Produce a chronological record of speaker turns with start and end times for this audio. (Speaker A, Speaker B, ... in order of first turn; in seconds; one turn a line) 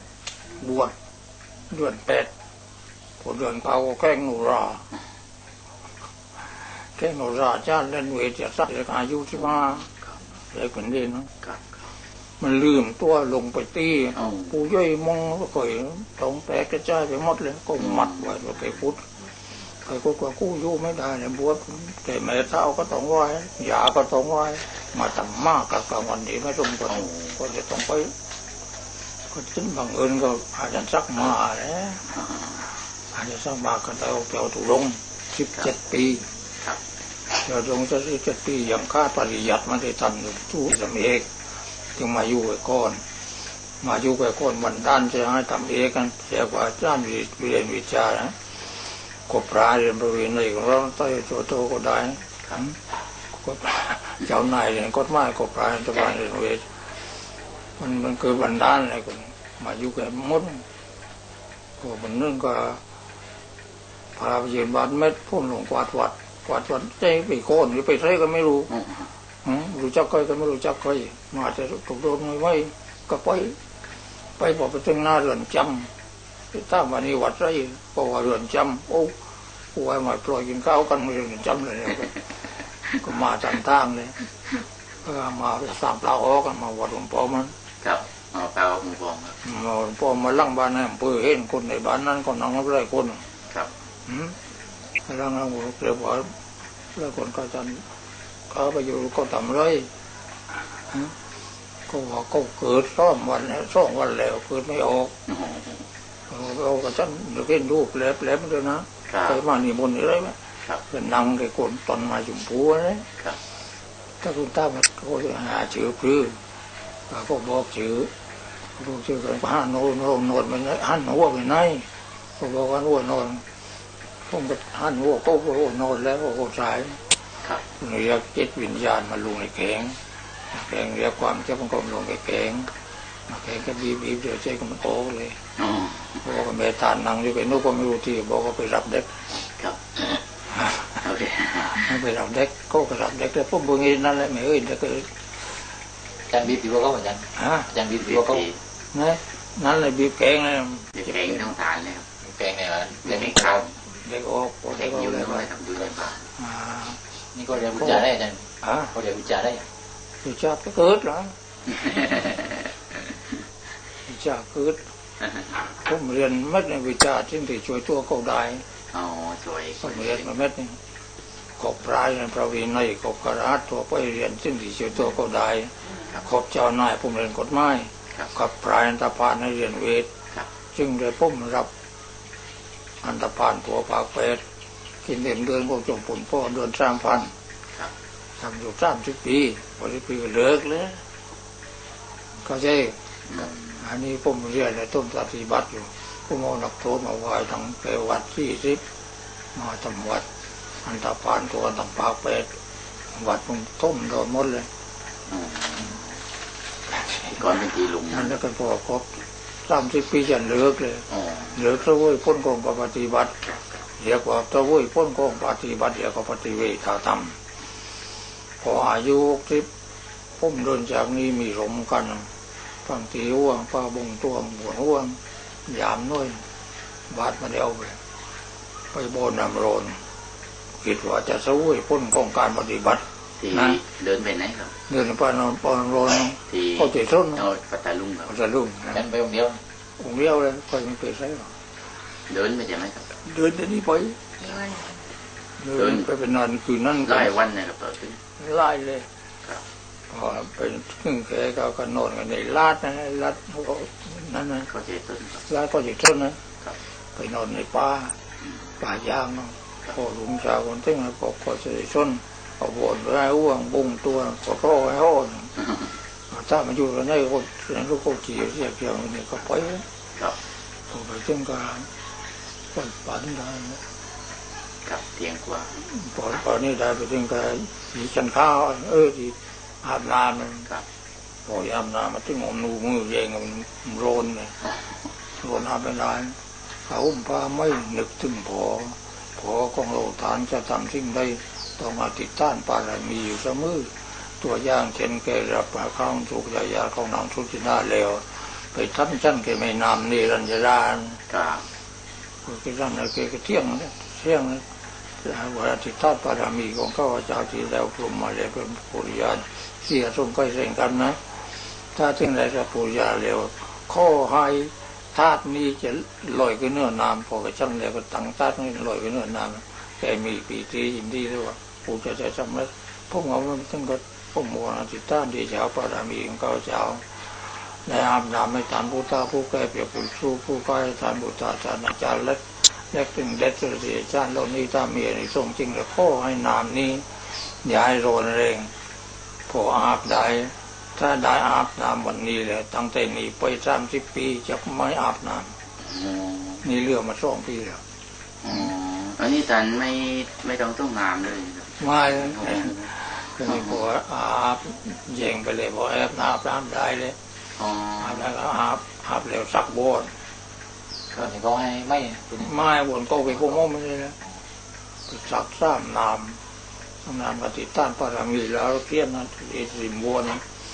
Speaker A: 0.6-0.9
Speaker A: 1.7-2.3
Speaker A: 3.2-4.9
Speaker A: 6.9-9.9
Speaker A: 10.5-11.3
Speaker B: 11.4-11.7
Speaker A: 12.4-19.1
Speaker B: 17.8-18.2
Speaker A: 19.8-28.1
Speaker B: 26.9-27.3
Speaker A: 29.3-32.0
Speaker B: 32.2-32.5
Speaker A: 33.1-36.2
Speaker A: 37.4-41.3
Speaker A: 42.0-43.0
Speaker A: 43.8-48.4
Speaker A: 49.3-52.8
Speaker A: 53.4-56.6
Speaker A: 57.8-60.6
Speaker A: 61.8-62.8
Speaker A: 64.2-68.8
Speaker A: 69.4-73.6
Speaker A: 74.4-75.9
Speaker A: 76.5-79.1
Speaker A: 79.7-82.2
Speaker A: 82.9-84.2
Speaker A: 85.0-87.5
Speaker B: 87.8-89.4
Speaker A: 89.4-93.2
Speaker A: 94.1-94.4
Speaker A: 95.0-96.3
Speaker A: 96.9-97.8
Speaker A: 98.5-99.9
Speaker A: 101.9-105.1
Speaker B: 105.3-105.8
Speaker A: 106.3-113.1
Speaker B: 109.1-109.4
Speaker A: 114.2-116.4
Speaker A: 117.1-118.1
Speaker A: 118.8-123.4
Speaker A: 124.3-127.0
Speaker A: 127.8-130.0
Speaker A: 130.5-132.7
Speaker A: 133.3-135.4
Speaker B: 135.6-136.2
Speaker A: 136.2-139.2
Speaker B: 139.4-140.2
Speaker B: 141.0-141.8
Speaker A: 141.7-145.1
Speaker C: 146.3-148.5
Speaker A: 147.4-147.7
Speaker B: 148.0-148.6
Speaker A: 148.9-151.4
Speaker B: 151.0-152.1
Speaker C: 152.2-153.7
Speaker B: 153.1-153.7
Speaker A: 153.9-155.5
Speaker B: 154.8-156.3
Speaker A: 156.4-157.0
Speaker C: 157.3-159.7
Speaker A: 157.8-158.1
Speaker A: 158.6-158.9
Speaker A: 160.2-161.3
Speaker B: 161.7-162.7
Speaker A: 164.1-164.8
Speaker A: 165.7-168.7
Speaker B: 168.9-170.3
Speaker A: 169.8-170.8
Speaker A: 171.6-180.1
Speaker A: 180.7-181.7
Speaker A: 183.0-184.4
Speaker A: 185.0-187.3
Speaker A: 188.4-191.0
Speaker A: 192.4-198.8
Speaker A: 199.6-200.3
Speaker A: 200.8-202.6
Speaker A: 203.1-204.7
Speaker B: 205.3-206.1
Speaker A: 207.1-207.4
Speaker B: 207.3-208.4
Speaker A: 208.1-213.4
Speaker B: 211.2-211.5
Speaker A: 214.0-217.4
Speaker A: 218.6-219.7
Speaker A: 220.4-222.3
Speaker A: 222.8-226.4
Speaker A: 227.1-228.0
Speaker A: 228.9-230.0
Speaker A: 230.8-233.8
Speaker B: 233.4-234.7
Speaker A: 234.9-237.4
Speaker B: 236.5-238.3
Speaker A: 238.3-239.1
Speaker C: 238.9-239.6
Speaker A: 240.0-241.5
Speaker B: 242.3-243.1
Speaker A: 243.2-244.9
Speaker A: 245.6-247.3
Speaker B: 245.8-246.1
Speaker B: 247.0-248.2
Speaker A: 248.4-249.1
Speaker A: 250.1-254.7
Speaker B: 254.7-255.4
Speaker A: 255.4-256.4
Speaker A: 257.1-258.2
Speaker A: 258.8-265.5
Speaker A: 266.3-269.8
Speaker A: 270.9-271.9
Speaker A: 272.7-273.8
Speaker B: 274.9-275.8
Speaker A: 275.8-280.7
Speaker A: 281.5-284.6
Speaker A: 285.4-301.2
Speaker B: 301.3-301.6
Speaker A: 302.4-304.6
Speaker A: 305.2-338.7
Speaker A: 339.5-345.5
Speaker B: 345.8-346.6
Speaker A: 346.6-347.8
Speaker B: 348.4-352.9
Speaker A: 351.8-357.2
Speaker B: 357.6-358.3
Speaker A: 358.0-360.1
Speaker C: 361.1-362.6
Speaker A: 362.4-364.2
Speaker A: 365.1-366.4
Speaker A: 367.0-370.4